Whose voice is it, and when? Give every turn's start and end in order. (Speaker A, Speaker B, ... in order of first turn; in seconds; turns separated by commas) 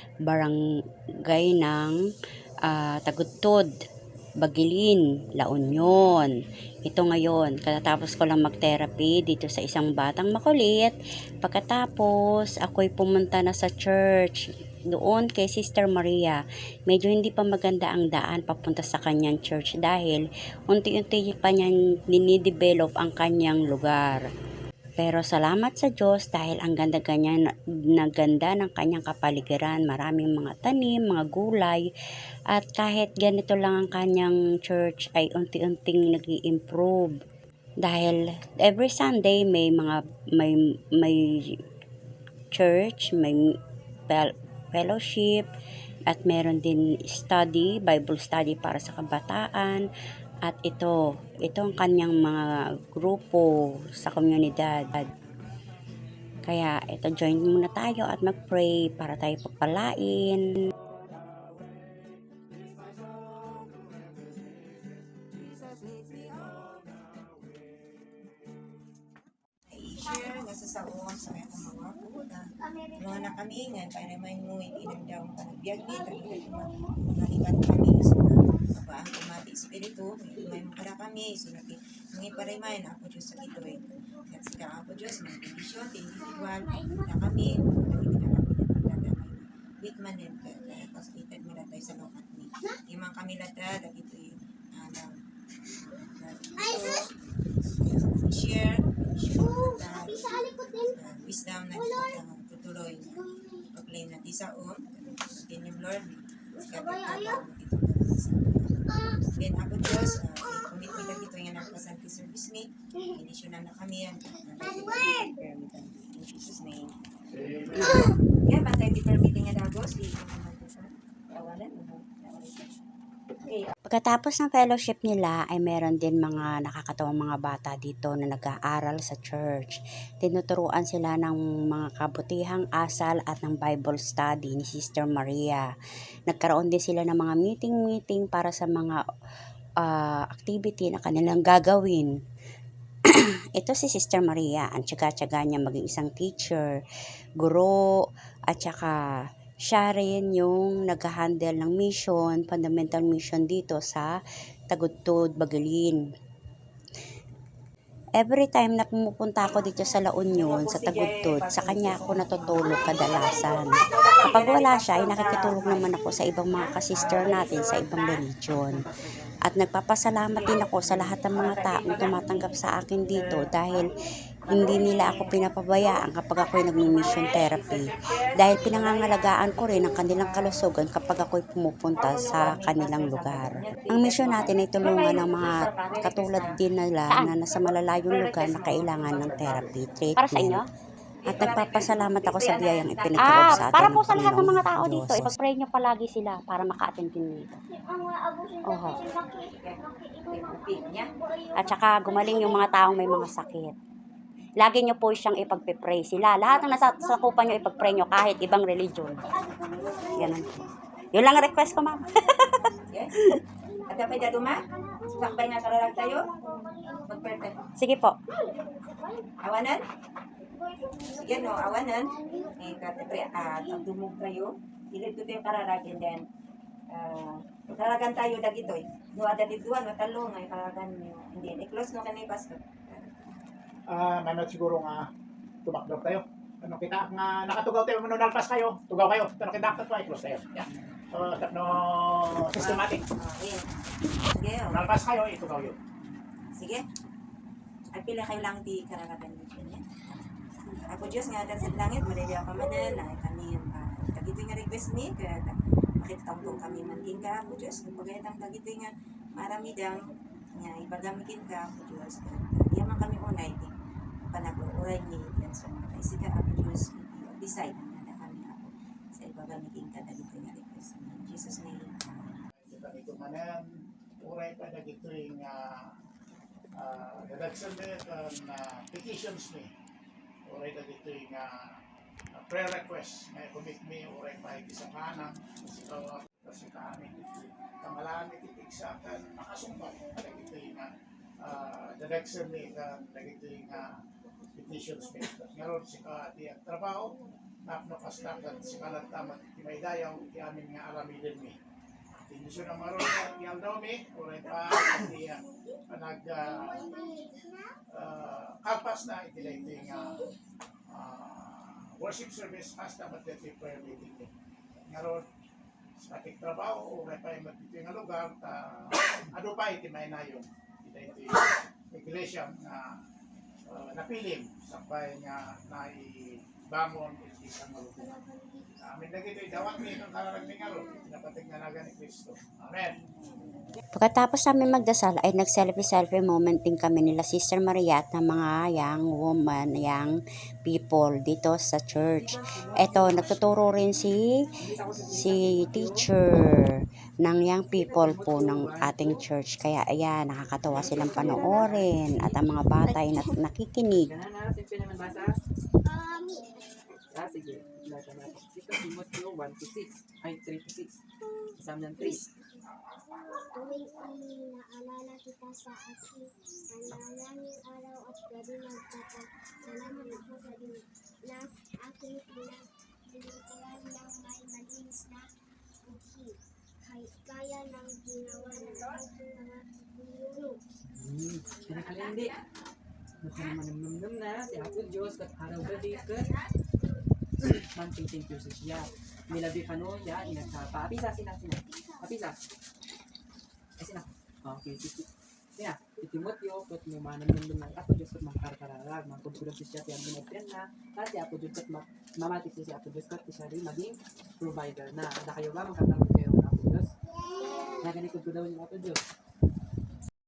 Speaker A: 0.3-0.6, Speaker A: 1.3-2.0, Speaker A: 2.6-3.7, Speaker A: 4.4-6.3, Speaker A: 6.8-14.4, Speaker A: 14.9-24.2, Speaker A: 25.0-27.4, Speaker A: 28.0-31.8, Speaker A: 32.5-37.1, Speaker A: 37.8-41.2, Speaker A: 42.5-43.4, Speaker A: 44.1-45.5, Speaker A: 46.1-49.8, Speaker A: 50.5-55.1, Speaker A: 56.5-60.4, Speaker B: 61.3-67.7, Speaker C: 69.7-95.2, Speaker D: 76.1-76.5, Speaker D: 83.5-84.1, Speaker D: 86.2-87.1, Speaker D: 90.5-90.8, Speaker C: 95.8-97.1, Speaker D: 96.6-97.1, Speaker C: 97.7-117.0, Speaker D: 99.4-101.0, Speaker D: 101.8-102.2, Speaker D: 103.1-103.6, Speaker D: 106.6-107.4, Speaker D: 110.2-111.0, Speaker D: 114.6-115.4, Speaker B: 117.3-118.1, Speaker C: 117.7-122.7, Speaker C: 123.3-123.7, Speaker A: 123.9-135.7, Speaker A: 136.3-139.0, Speaker A: 139.8-142.1, Speaker A: 143.1-146.8, Speaker A: 147.4-147.8, Speaker A: 148.5-149.0, Speaker A: 149.7-154.2, Speaker A: 154.7-156.0, Speaker A: 158.2-168.9, Speaker C: 160.4-165.7, Speaker E: 165.5-165.8, Speaker E: 166.9-167.5, Speaker C: 167.3-167.6, Speaker E: 168.7-169.3, Speaker A: 169.4-190.7, Speaker C: 174.5-175.0, Speaker C: 178.6-179.0, Speaker C: 181.9-186.6, Speaker F: 184.9-185.7, Speaker F: 187.1-188.2, Speaker C: 188.0-189.8, Speaker F: 190.2-190.7, Speaker C: 191.2-193.9, Speaker A: 191.3-195.4, Speaker F: 193.1-197.6, Speaker D: 197.7-203.3, Speaker F: 198.6-199.0, Speaker C: 198.8-201.1, Speaker F: 201.5-203.8, Speaker F: 204.6-209.3, Speaker D: 206.7-208.1, Speaker D: 209.2-212.2, Speaker F: 210.2-210.5, Speaker F: 211.1-212.8, Speaker D: 213.7-217.4, Speaker C: 213.9-216.3, Speaker C: 216.8-217.7, Speaker F: 217.8-218.2, Speaker D: 218.4-219.3, Speaker C: 219.4-219.9, Speaker D: 220.5-223.8, Speaker C: 220.9-226.3, Speaker C: 226.9-233.4, Speaker B: 233.9-235.1, Speaker B: 235.7-243.0, Speaker C: 242.4-244.9, Speaker B: 244.7-245.8, Speaker C: 246.5-246.8, Speaker C: 247.9-263.7, Speaker C: 264.3-272.0, Speaker B: 272.6-275.9, Speaker B: 276.8-279.7, Speaker B: 280.5-281.6, Speaker B: 282.4-290.9, Speaker D: 290.1-290.7, Speaker B: 291.4-293.9, Speaker D: 294.4-295.1, Speaker B: 294.5-301.6, Speaker D: 298.1-299.4, Speaker B: 302.1-307.1, Speaker D: 306.4-307.8, Speaker B: 307.9-310.2, Speaker D: 309.4-310.2, Speaker B: 310.9-314.3, Speaker B: 314.9-315.2, Speaker B: 316.0-322.9, Speaker B: 323.7-328.2, Speaker D: 328.0-328.7, Speaker B: 328.8-333.0, Speaker D: 330.6-331.0, Speaker A: 333.9-340.1, Speaker A: 340.7-344.3, Speaker E: 342.0-343.6, Speaker E: 344.6-346.1, Speaker A: 345.1-354.1, Speaker E: 347.7-349.2, Speaker E: 350.7-353.0, Speaker E: 354.1-355.4, Speaker D: 355.9-356.8, Speaker E: 357.1-361.0, Speaker E: 361.6-362.3, Speaker D: 363.5-375.3, Speaker D: 375.8-380.6, Speaker E: 380.9-382.4, Speaker E: 383.2-386.4, Speaker E: 387.4-392.4, Speaker D: 390.2-390.5, Speaker D: 391.7-392.1, Speaker E: 393.8-406.9, Speaker D: 407.3-407.9, Speaker E: 407.8-409.0